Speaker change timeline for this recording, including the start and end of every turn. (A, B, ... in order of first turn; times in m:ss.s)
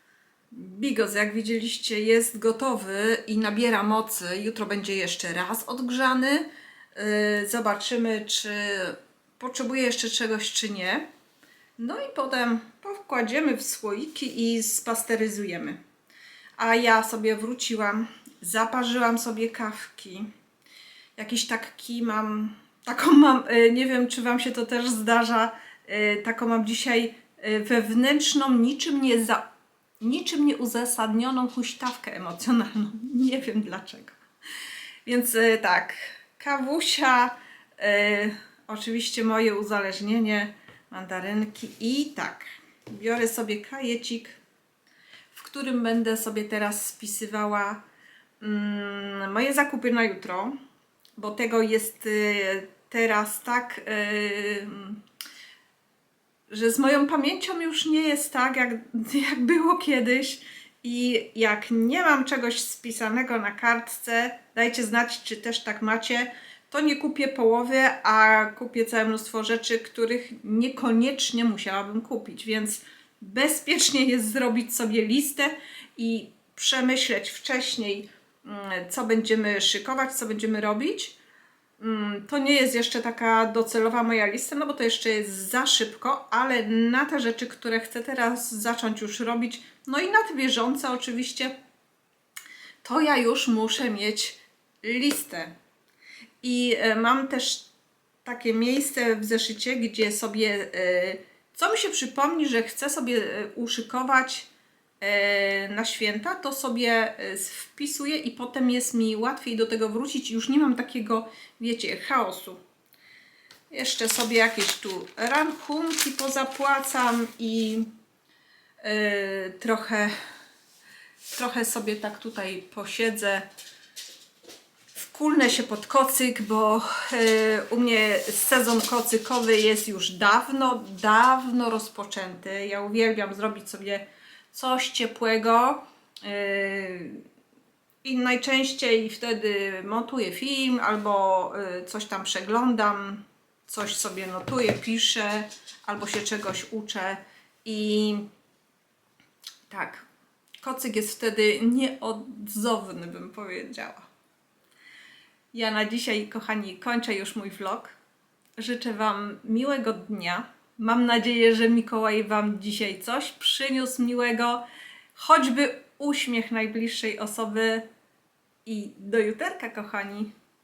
0:00.5-0:11.1 A
0:11.8-0:15.8 A
0:16.6-0:20.3 A
0:21.2-0:29.4 A
0:30.0-0:34.2 A
0:35.0-0:44.4 A
0:45.3-0:47.8 A
0:48.4-0:50.6 A
0:51.2-0:55.0 A
0:56.5-1:21.2 A
1:21.8-1:31.6 A
1:32.8-1:35.5 A
1:36.4-1:37.7 A
1:38.2-1:44.5 A
1:45.0-1:52.6 A
1:53.7-1:57.9 A
1:58.8-2:00.1 A
2:01.3-2:03.5 A
2:05.0-2:17.2 A
2:18.0-2:28.3 A
2:29.7-2:30.1 A
2:30.6-2:34.1 A
2:35.5-2:38.0 A
2:38.6-2:47.9 A
2:48.6-2:50.3 A